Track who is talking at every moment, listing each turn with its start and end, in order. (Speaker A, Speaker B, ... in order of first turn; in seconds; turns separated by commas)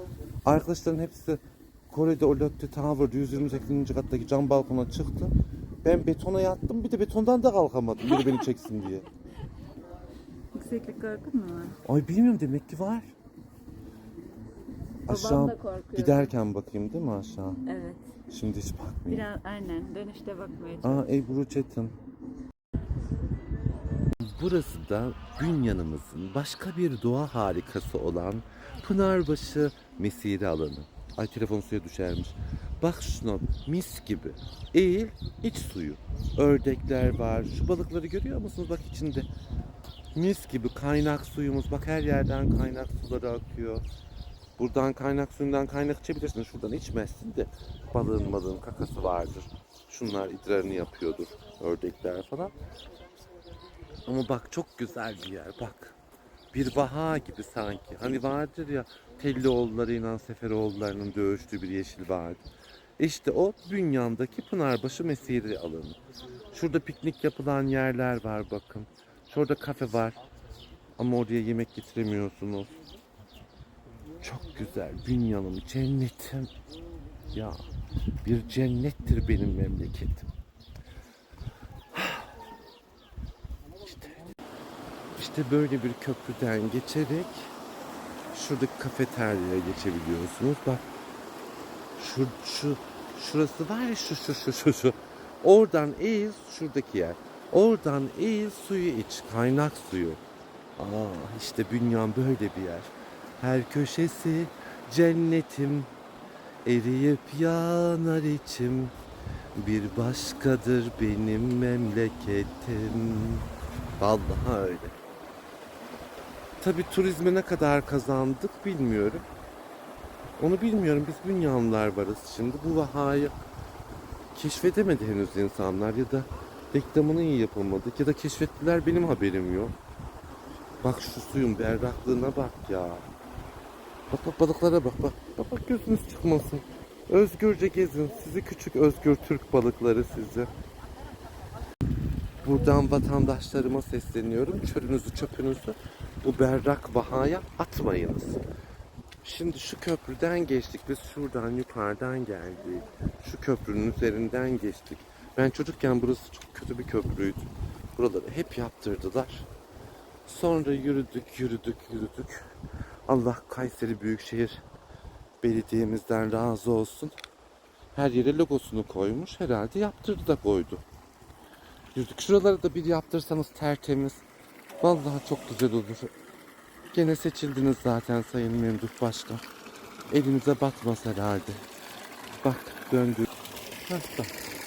Speaker A: 0.5-9.1, Speaker B: 8.1-8.3, Speaker B: 10.6-11.8, Speaker A: 11.8-13.1, Speaker B: 15.1-16.4, Speaker A: 15.1-17.6, Speaker B: 17.7-18.0, Speaker A: 18.3-19.3, Speaker B: 19.1-21.1, Speaker A: 20.8-21.9, Speaker A: 24.2-39.3, Speaker A: 40.1-43.8, Speaker A: 44.6-52.5, Speaker A: 54.1-56.0, Speaker A: 56.5-62.4, Speaker A: 63.0-66.0, Speaker A: 66.5-70.2, Speaker A: 71.0-72.8, Speaker A: 74.2-76.5, Speaker A: 77.3-77.6, Speaker A: 78.2-80.3, Speaker A: 81.9-82.3, Speaker A: 83.8-84.2, Speaker A: 85.2-87.5, Speaker A: 88.3-90.8, Speaker A: 92.0-100.2, Speaker A: 100.8-105.9, Speaker A: 106.7-108.9, Speaker A: 109.6-113.5, Speaker A: 114.0-114.9, Speaker A: 116.6-119.3, Speaker A: 120.4-123.3, Speaker A: 124.3-129.7, Speaker A: 130.8-133.0, Speaker A: 134.1-140.5, Speaker A: 142.4-148.4, Speaker A: 149.2-159.5, Speaker A: 160.3-162.4, Speaker A: 163.1-164.6, Speaker A: 165.4-167.2, Speaker A: 167.9-170.8, Speaker A: 171.9-174.2, Speaker A: 174.8-176.1, Speaker A: 176.9-179.4, Speaker A: 180.1-181.6, Speaker A: 182.4-183.3, Speaker A: 183.8-184.3